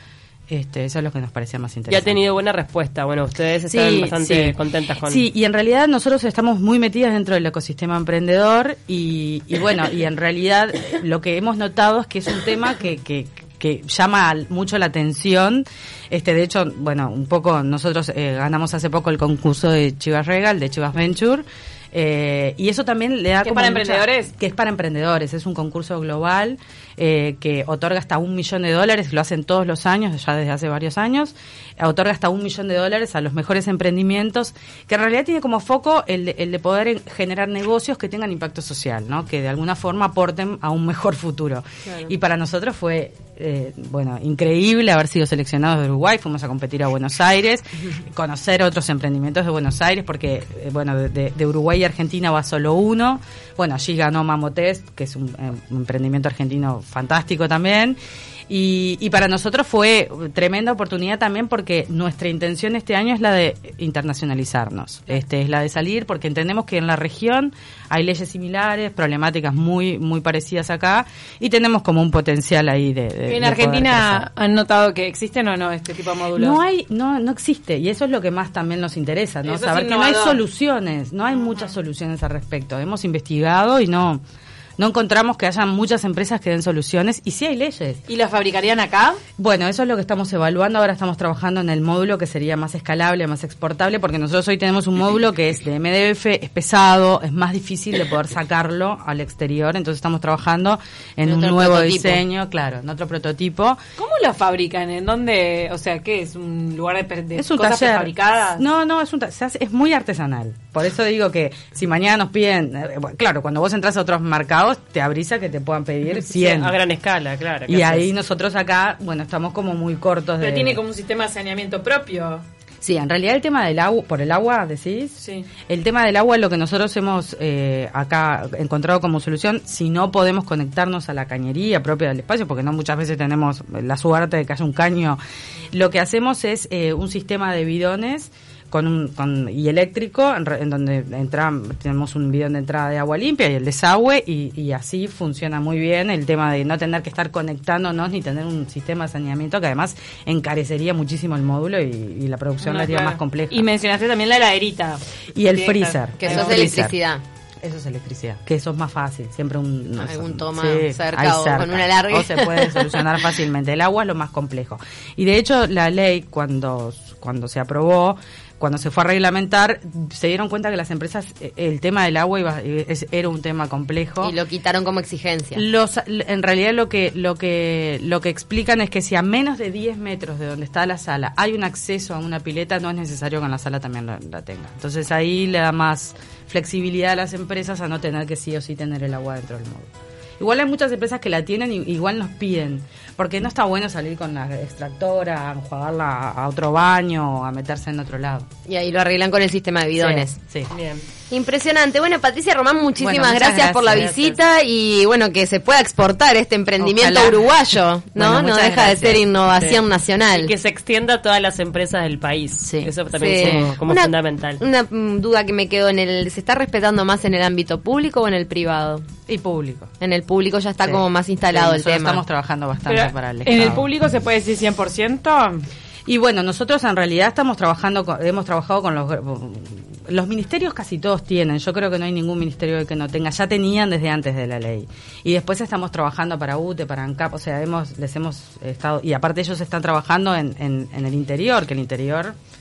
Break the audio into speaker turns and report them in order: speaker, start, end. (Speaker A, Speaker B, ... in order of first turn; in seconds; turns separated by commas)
Speaker A: 0.5-2.2, Speaker B: 1.9-5.2, Speaker A: 3.7-58.0, Speaker C: 23.4-24.3, Speaker A: 58.5-74.3, Speaker C: 73.3-76.6, Speaker A: 76.3-84.2, Speaker C: 79.5-80.4, Speaker A: 84.8-88.0, Speaker C: 88.1-89.2, Speaker A: 89.4-103.8, Speaker D: 101.3-102.2, Speaker C: 104.0-108.6, Speaker A: 107.4-116.8, Speaker B: 116.1-118.1, Speaker A: 117.7-120.8, Speaker C: 120.4-122.4, Speaker A: 122.8-135.2, Speaker C: 125.2-125.5, Speaker A: 135.7-153.7, Speaker C: 152.6-156.8, Speaker A: 155.3-156.9, Speaker D: 156.2-157.2, Speaker A: 157.6-174.3, Speaker D: 160.0-163.1, Speaker D: 174.2-175.6, Speaker A: 175.6-198.5, Speaker D: 198.7-200.3, Speaker A: 200.0-200.7, Speaker B: 200.7-201.0, Speaker D: 201.3-210.5, Speaker A: 203.0-204.1, Speaker B: 203.9-204.4, Speaker A: 206.8-209.3, Speaker B: 209.5-214.6, Speaker A: 212.7-213.7, Speaker D: 213.1-219.1, Speaker A: 219.3-219.9, Speaker D: 220.0-222.2, Speaker A: 220.8-223.8, Speaker C: 222.9-225.7, Speaker A: 226.1-242.3